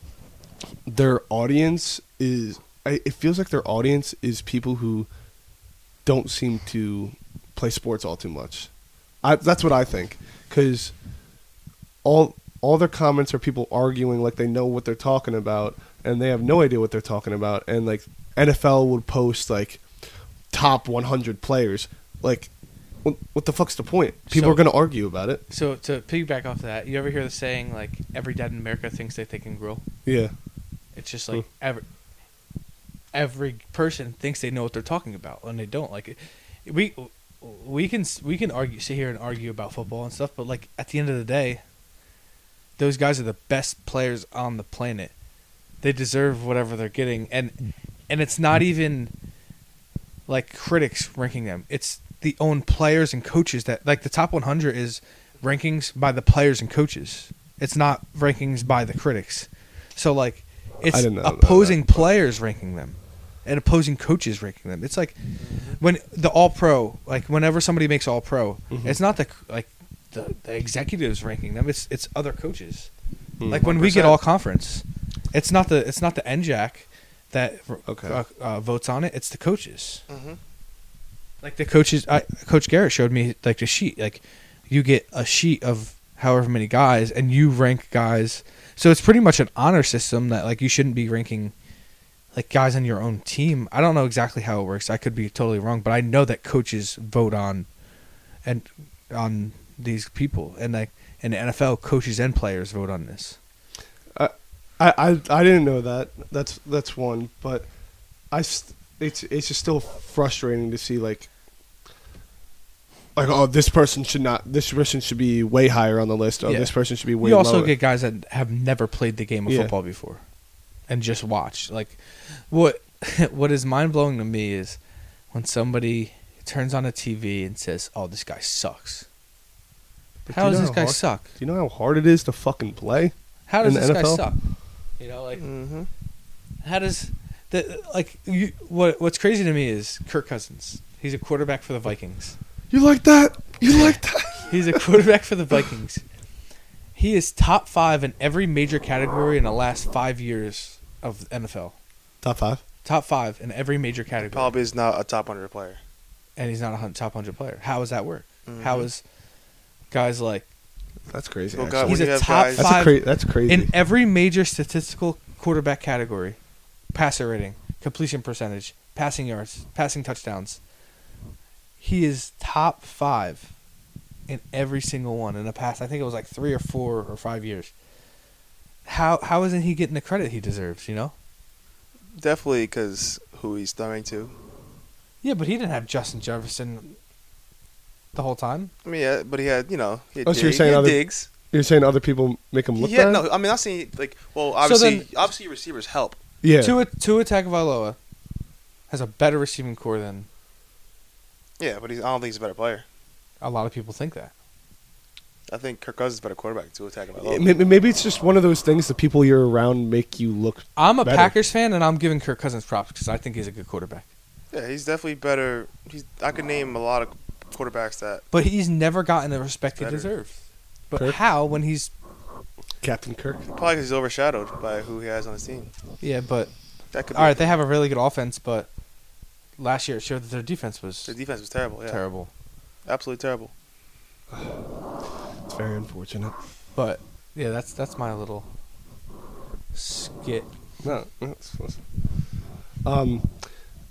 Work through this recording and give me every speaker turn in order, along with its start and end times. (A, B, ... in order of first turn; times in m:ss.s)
0:00.8-0:05.1 A
0:06.0-0:08.7 A
0:09.2-0:10.9 A
0:12.0-0:19.8 A
0:20.5-0:22.5 A
0:23.0-0:25.4 A
0:24.3-0:24.7 B
0:25.5-0:29.8 B
0:30.0-0:30.3 A
0:30.9-0:31.8 B
0:33.1-0:41.6 B
0:42.8-0:45.1 B
0:45.8-0:47.6 B
0:48.1-0:49.1 B
0:50.3-1:05.2 B
1:00.9-1:02.1 A
1:05.4-1:05.8 C
1:05.8-1:12.9 B
1:08.7-1:09.0 A
1:13.4-1:13.8 A
1:13.5-1:20.0 B
1:13.6-1:14.2 C
1:17.8-1:18.2 A
1:20.1-1:20.4 C
1:21.4-1:31.5 B
1:32.3-1:37.7 B
1:38.4-1:43.4 B
1:44.1-1:47.7 A
1:48.3-1:51.3 A
1:53.2-1:57.7 A
1:56.4-2:00.2 B
1:59.5-1:59.7 A
2:00.9-2:04.8 B
2:05.3-2:09.0 B
2:10.2-2:14.2 A
2:10.3-2:11.3 B
2:13.5-2:14.4 B
2:15.0-2:15.4 B
2:15.4-2:15.9 C
2:16.6-2:22.4 B
2:22.7-2:24.8 A
2:23.6-2:26.0 B
2:26.9-2:31.7 B
2:32.2-2:32.6 A
2:32.8-2:34.5 B
2:34.2-2:35.8 C
2:36.4-2:39.0 B
2:38.4-2:38.9 C
2:39.9-2:40.4 B
2:41.1-2:43.7 A
2:41.5-2:42.8 C
2:41.8-2:46.4 B
2:46.9-2:50.6 B
2:51.8-2:53.5 B
2:54.3-2:57.7 B
2:58.8-3:01.1 B
3:02.2-3:04.3 C
3:05.2-3:07.0 B
3:08.1-3:08.7 B
3:08.8-3:11.3 C
3:10.2-3:13.2 A
3:12.8-3:16.2 C
3:14.6-3:15.1 B
3:16.4-3:16.8 A
3:16.6-3:18.0 B
3:18.9-3:20.3 B
3:21.6-3:22.8 C
3:23.4-3:24.3 B
3:25.5-3:27.5 C
3:27.2-3:31.3 A
3:30.8-3:34.0 B
3:34.5-3:38.2 C
3:38.3-3:40.4 B
3:39.8-3:40.1 C
3:40.9-3:41.9 B
3:42.8-3:43.4 A
3:43.5-3:45.7 C
3:46.0-3:46.5 B
3:46.9-3:47.5 C
3:47.1-3:48.7 B
3:49.6-3:51.1 B
3:51.1-3:52.0 C
3:51.9-3:52.3 B
3:52.8-3:53.5 C
3:55.4-3:56.3 A
3:56.7-3:58.5 B
3:59.7-4:00.5 B
4:00.8-4:01.8 A
4:02.8-4:03.3 A